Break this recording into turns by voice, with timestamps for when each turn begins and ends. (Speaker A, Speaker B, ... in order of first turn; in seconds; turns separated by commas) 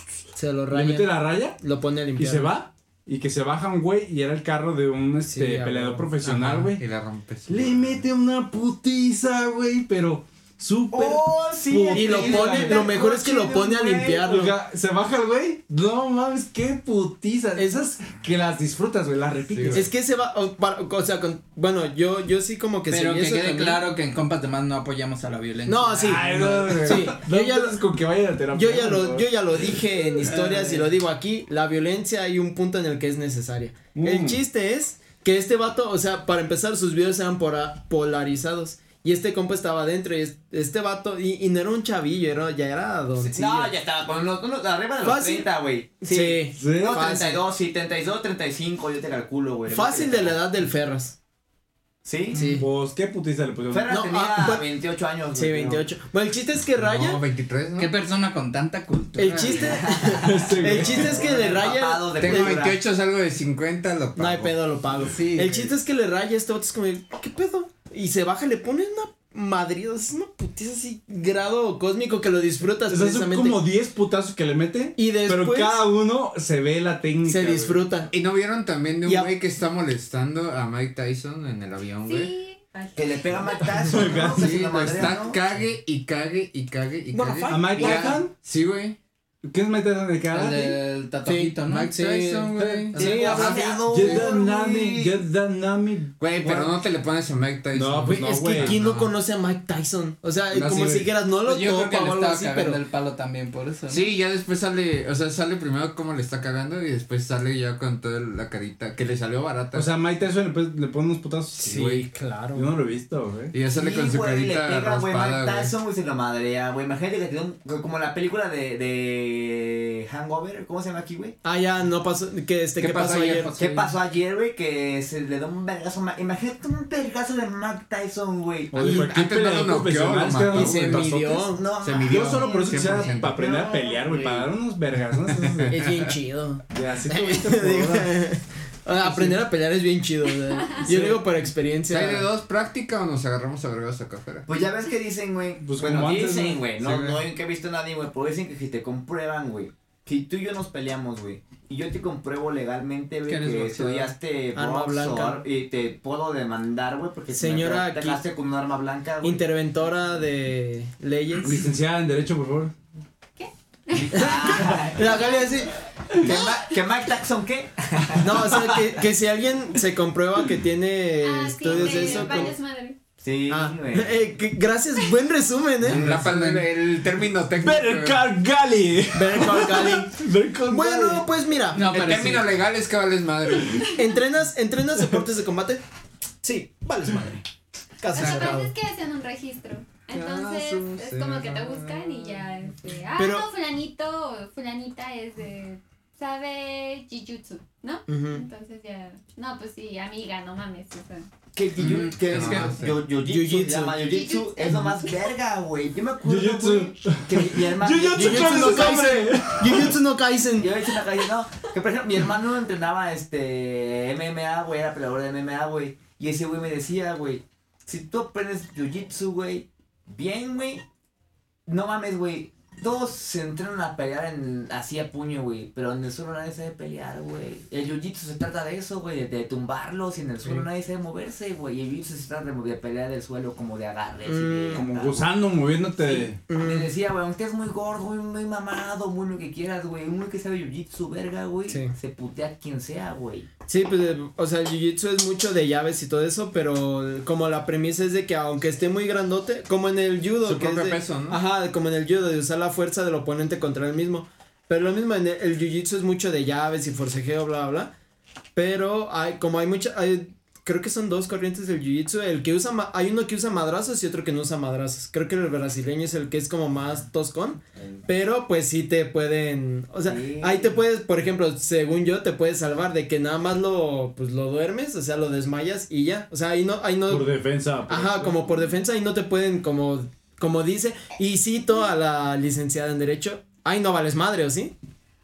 Speaker A: 0.3-2.5, Speaker B: 0.7-1.6, Speaker B: 2.2-6.8, Speaker A: 5.2-6.2, Speaker C: 6.2-8.1, Speaker B: 7.5-12.9, Speaker D: 10.9-14.3, Speaker A: 11.9-14.6, Speaker B: 14.2-19.9, Speaker C: 19.5-19.8, Speaker A: 19.7-23.8, Speaker E: 22.9-27.1, Speaker A: 25.7-26.2, Speaker B: 26.0-30.7, Speaker A: 26.8-27.8, Speaker A: 28.5-43.7, Speaker E: 30.3-30.8, Speaker B: 34.0-34.4, Speaker D: 43.2-50.4, Speaker A: 45.0-47.4, Speaker B: 46.6-47.1, Speaker A: 49.7-51.2, Speaker D: 52.0-52.5, Speaker A: 52.3-52.7, Speaker B: 52.5-53.9, Speaker D: 53.7-55.9, Speaker A: 53.9-54.7, Speaker A: 55.3-57.2, Speaker C: 56.8-57.9, Speaker E: 57.8-59.8, Speaker A: 59.2-62.7, Speaker D: 59.5-62.8, Speaker B: 60.2-61.3, Speaker C: 62.2-64.6, Speaker A: 64.2-73.6, Speaker E: 65.0-65.7, Speaker B: 72.9-77.8, Speaker A: 75.0-75.9, Speaker A: 77.2-78.1, Speaker C: 78.1-82.3, Speaker A: 79.0-79.3, Speaker F: 82.0-83.4, Speaker D: 83.0-85.4, Speaker B: 83.8-85.1, Speaker C: 84.3-89.0, Speaker A: 87.1-88.2, Speaker B: 87.5-88.3, Speaker B: 89.4-90.8, Speaker E: 90.3-94.2, Speaker A: 91.2-93.7, Speaker C: 91.7-93.4, Speaker B: 92.6-92.9, Speaker D: 93.0-95.2, Speaker B: 93.9-96.8, Speaker C: 96.2-99.1, Speaker B: 97.7-98.8, Speaker A: 98.2-102.8, Speaker B: 100.5-101.0, Speaker E: 101.4-104.1, Speaker C: 103.9-109.9, Speaker B: 109.7-113.5, Speaker A: 111.6-112.7, Speaker C: 113.5-115.8, Speaker D: 113.7-121.4, Speaker A: 121.4-123.5, Speaker C: 122.8-123.5, Speaker E: 122.8-123.9, Speaker D: 123.6-128.9, Speaker B: 128.7-135.8, Speaker C: 128.8-131.1, Speaker A: 130.5-131.6, Speaker D: 131.5-134.5, Speaker C: 131.8-133.4, Speaker C: 135.2-136.0, Speaker A: 135.7-142.3, Speaker B: 136.7-138.1, Speaker B: 139.1-139.4, Speaker C: 141.9-144.5, Speaker D: 144.5-159.4, Speaker B: 145.6-147.1, Speaker C: 146.8-147.2, Speaker E: 153.3-154.1, Speaker A: 154.5-155.4, Speaker A: 157.3-158.2, Speaker A: 159.2-161.6, Speaker B: 161.4-162.7, Speaker F: 163.4-165.6, Speaker D: 163.9-165.3, Speaker A: 164.1-165.7, Speaker D: 166.1-168.9, Speaker F: 166.2-166.6, Speaker A: 168.2-172.6, Speaker F: 171.2-173.0, Speaker D: 171.7-172.5, Speaker D: 173.2-174.2, Speaker A: 173.5-176.2, Speaker C: 175.8-178.2, Speaker B: 175.9-176.7, Speaker B: 177.6-181.3, Speaker A: 179.1-181.8, Speaker E: 181.7-182.6, Speaker C: 181.9-183.9, Speaker A: 183.9-185.8, Speaker A: 186.4-187.4, Speaker A: 188.0-188.7, Speaker F: 188.1-201.3, Speaker E: 188.2-188.5, Speaker C: 190.1-192.6, Speaker A: 193.2-193.5, Speaker A: 198.1-198.4, Speaker D: 201.5-209.2, Speaker E: 201.8-202.8, Speaker C: 202.3-203.0, Speaker A: 203.2-204.0, Speaker F: 204.0-205.2, Speaker B: 206.2-210.0, Speaker A: 208.1-210.7, Speaker D: 210.6-220.8, Speaker D: 221.7-243.5, Speaker A: 234.2-234.9, Speaker B: 234.7-236.5, Speaker A: 236.5-236.9, Speaker A: 241.7-241.9, Speaker A: 243.7-257.9, Speaker C: 250.4-251.4, Speaker A: 258.6-277.3, Speaker D: 267.8-268.1, Speaker D: 270.1-270.8, Speaker B: 277.1-278.7, Speaker A: 277.9-284.7